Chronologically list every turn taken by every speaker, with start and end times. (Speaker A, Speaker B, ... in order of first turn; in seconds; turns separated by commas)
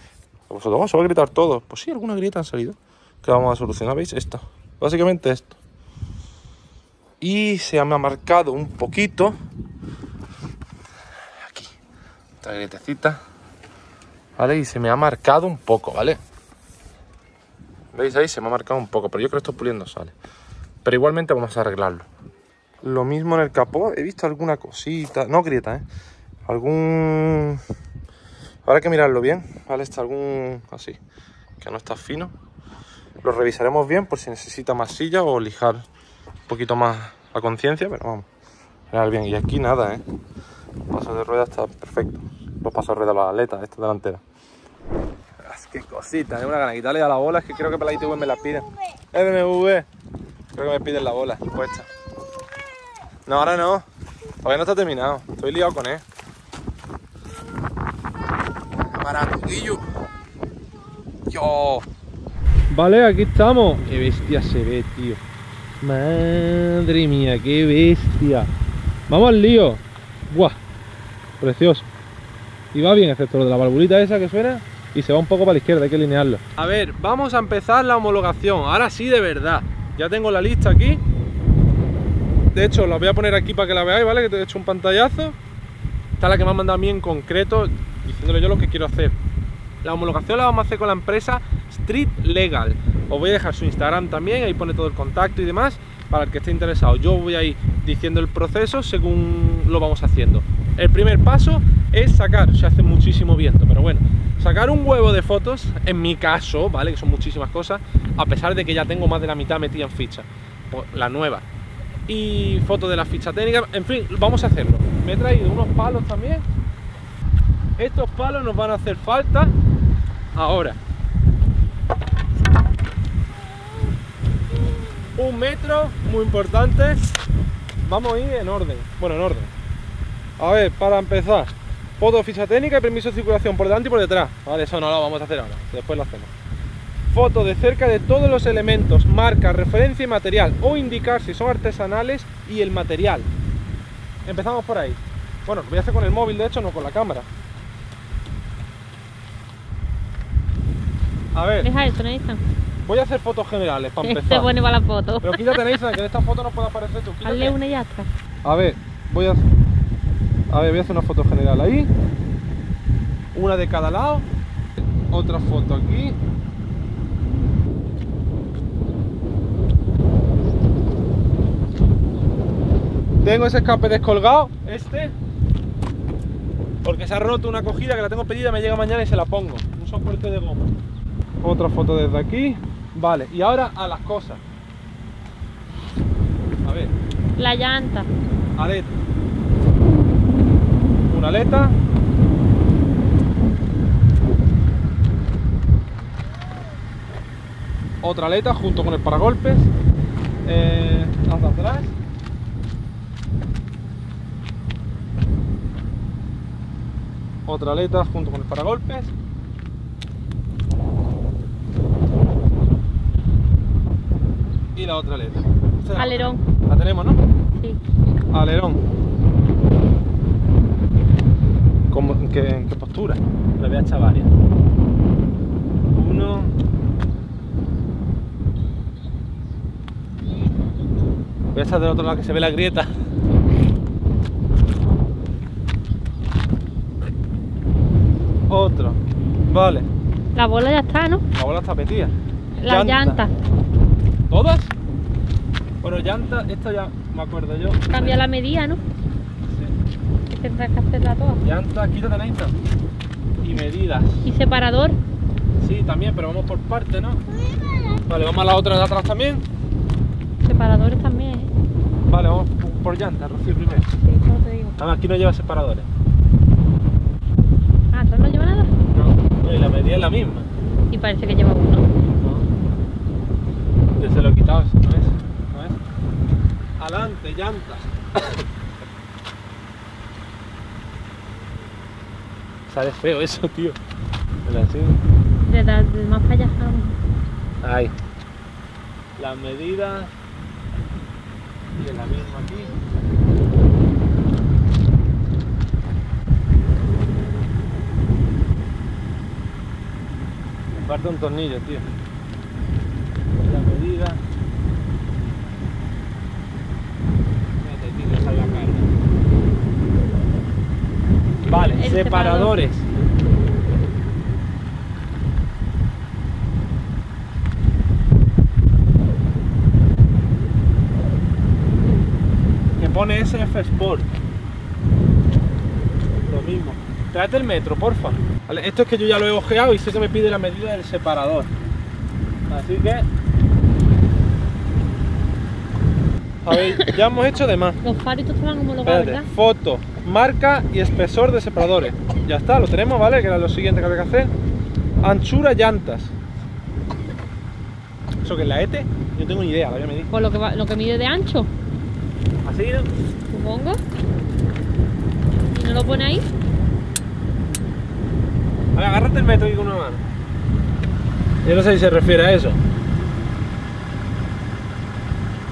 Speaker A: 0.5-5.5, Speaker A: 7.2-9.3, Speaker A: 11.4-11.7, Speaker A: 12.4-13.2, Speaker A: 14.4-16.2, Speaker A: 17.9-20.1, Speaker A: 20.8-22.1, Speaker A: 22.8-25.8, Speaker A: 26.5-27.6, Speaker A: 28.6-31.0, Speaker A: 31.6-32.3, Speaker A: 33.2-35.8, Speaker A: 36.5-38.2, Speaker A: 38.9-40.0, Speaker A: 40.9-44.2, Speaker A: 45.4-49.9, Speaker A: 50.5-51.9, Speaker A: 53.2-53.8, Speaker A: 54.4-56.0, Speaker A: 58.9-59.8, Speaker A: 61.3-61.8, Speaker A: 62.7-65.2, Speaker A: 65.8-68.5, Speaker A: 69.1-70.6, Speaker A: 71.4-71.9, Speaker A: 72.7-81.0, Speaker A: 82.5-85.3, Speaker A: 86.2-89.2, Speaker A: 89.8-111.4, Speaker A: 112.1-116.4, Speaker A: 117.8-119.5, Speaker A: 120.3-120.8, Speaker A: 125.1-127.1, Speaker A: 127.8-129.5, Speaker A: 130.4-136.3, Speaker A: 137.1-143.3, Speaker A: 144.2-147.3, Speaker A: 151.3-151.7, Speaker B: 151.6-152.4, Speaker A: 152.8-154.5, Speaker B: 154.0-155.7, Speaker A: 155.2-157.6, Speaker B: 157.2-158.1, Speaker A: 158.4-159.4, Speaker A: 160.5-161.9, Speaker A: 163.3-164.2, Speaker A: 165.1-166.2, Speaker A: 173.2-175.1, Speaker A: 176.8-180.7, Speaker A: 181.4-184.4, Speaker A: 186.6-186.9, Speaker B: 187.4-188.1, Speaker A: 188.6-188.9, Speaker A: 191.1-191.8, Speaker A: 198.0-199.7, Speaker A: 200.4-201.9, Speaker A: 207.4-209.1, Speaker A: 214.8-217.2, Speaker B: 216.0-216.4, Speaker A: 218.3-218.8, Speaker A: 221.9-224.3, Speaker A: 225.9-226.5, Speaker A: 231.5-232.9, Speaker A: 238.5-239.9, Speaker B: 240.3-241.2, Speaker A: 241.3-242.1, Speaker B: 242.6-243.3, Speaker A: 242.7-243.2, Speaker A: 244.3-244.7, Speaker A: 245.8-248.2, Speaker B: 247.9-248.8, Speaker B: 250.3-251.4, Speaker A: 251.4-252.5, Speaker A: 253.4-254.2, Speaker B: 254.2-255.0, Speaker A: 255.6-257.2, Speaker A: 258.1-259.4, Speaker B: 260.4-261.5, Speaker A: 262.1-263.9, Speaker B: 264.0-264.8, Speaker A: 264.8-265.9, Speaker B: 267.9-268.7, Speaker A: 268.9-270.5, Speaker B: 270.9-271.9, Speaker A: 272.0-272.4, Speaker A: 274.0-275.8, Speaker A: 276.8-278.4, Speaker A: 282.7-283.8, Speaker A: 284.4-285.0, Speaker B: 285.4-286.9, Speaker A: 287.6-287.9, Speaker A: 289.2-290.1, Speaker A: 291.8-292.7, Speaker A: 300.8-301.9, Speaker A: 303.4-304.2, Speaker A: 307.6-308.9, Speaker A: 311.5-312.9, Speaker B: 311.8-312.6, Speaker A: 322.8-324.1, Speaker A: 326.3-331.5, Speaker A: 332.5-333.1, Speaker A: 336.4-337.8, Speaker B: 337.8-339.3, Speaker A: 338.8-344.3, Speaker A: 345.0-346.1, Speaker A: 348.2-350.1, Speaker B: 350.1-351.5, Speaker A: 352.4-352.9, Speaker B: 353.3-353.8, Speaker B: 355.5-356.2, Speaker A: 358.8-360.0, Speaker A: 361.4-362.6